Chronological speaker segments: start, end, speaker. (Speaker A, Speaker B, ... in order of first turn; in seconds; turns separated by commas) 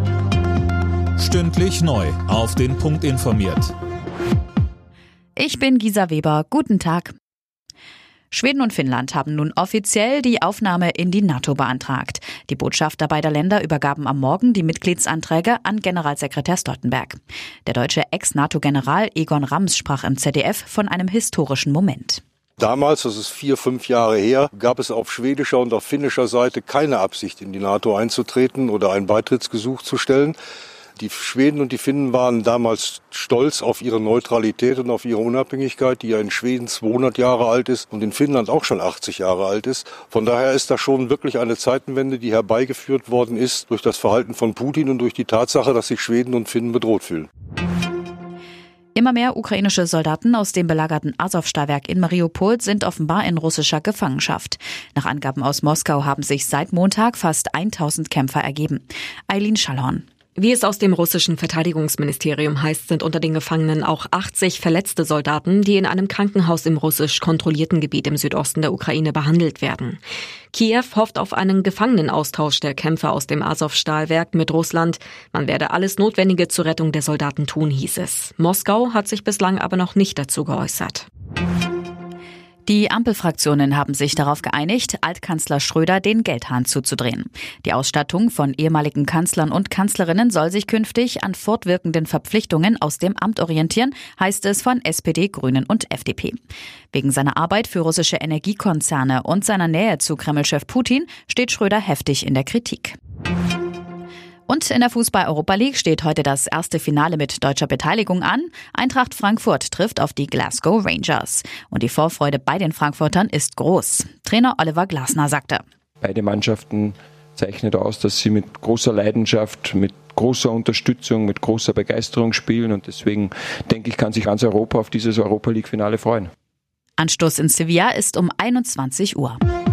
Speaker A: 1.2-3.7, Speaker B: 5.4-7.1, Speaker B: 8.3-22.2, Speaker C: 22.6-30.4, Speaker C: 31.0-47.3, Speaker B: 48.9-60.0, Speaker D: 60.4-70.0, Speaker D: 70.5-81.1, Speaker B: 82.7-96.4, Speaker B: 96.9-103.0, Speaker B: 104.5-115.6, Speaker E: 116.0-126.3, Speaker B: 127.0-129.4